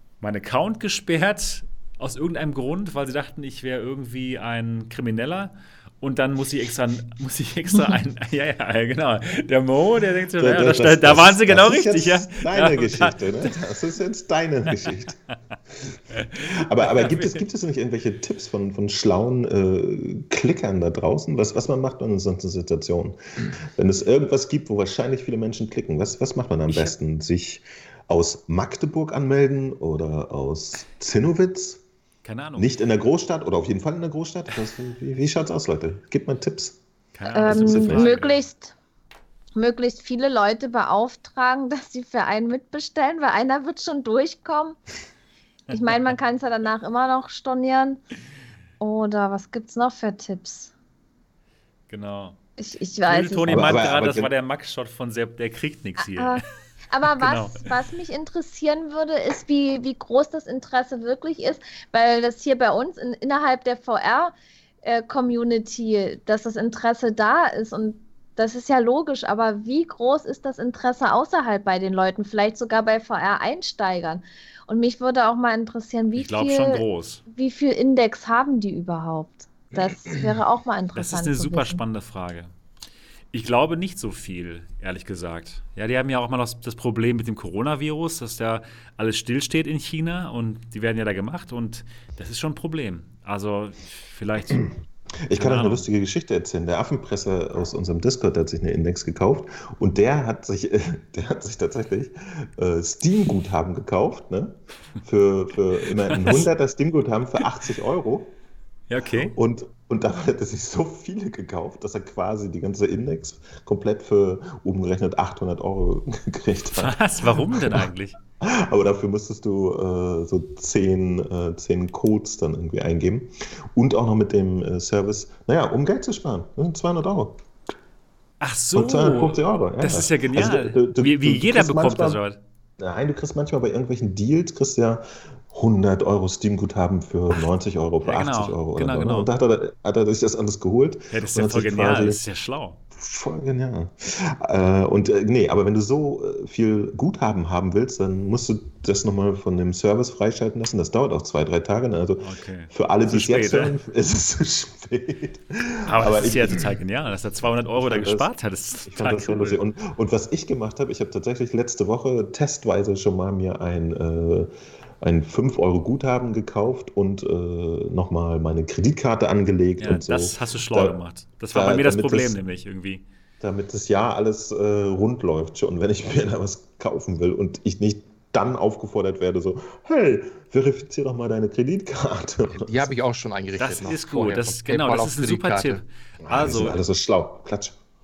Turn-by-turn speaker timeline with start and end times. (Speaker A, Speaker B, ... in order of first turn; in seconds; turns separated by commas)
Speaker A: 0.2-13.5, Speaker B: 10.4-15.2, Speaker B: 15.9-31.8, Speaker A: 16.2-17.4, Speaker A: 26.7-26.9, Speaker A: 32.2-32.7, Speaker B: 32.6-36.8, Speaker A: 37.1-38.4, Speaker C: 37.3-38.8, Speaker B: 37.4-38.1, Speaker C: 39.6-44.8, Speaker C: 45.7-48.0, Speaker C: 48.8-50.7, Speaker A: 51.9-52.4, Speaker C: 52.6-53.8, Speaker A: 53.1-56.4, Speaker B: 53.5-54.3, Speaker C: 56.0-81.8, Speaker A: 57.1-57.6, Speaker A: 76.2-77.2, Speaker A: 81.0-82.5, Speaker A: 83.3-94.7, Speaker B: 95.3-108.4, Speaker A: 95.3-95.9, Speaker A: 106.0-106.5, Speaker A: 108.9-109.4, Speaker B: 109.2-117.9, Speaker A: 116.8-118.2, Speaker B: 118.4-127.4, Speaker A: 128.4-132.4, Speaker B: 128.8-132.2, Speaker B: 132.8-142.2, Speaker A: 138.0-139.3, Speaker A: 141.1-142.8, Speaker B: 142.9-156.7, Speaker A: 152.2-153.8, Speaker A: 155.8-159.6, Speaker B: 157.8-158.3, Speaker B: 158.9-171.0, Speaker A: 169.8-173.0, Speaker B: 171.5-172.4, Speaker B: 173.4-182.9, Speaker D: 182.5-185.8, Speaker A: 183.6-186.8, Speaker B: 186.2-187.8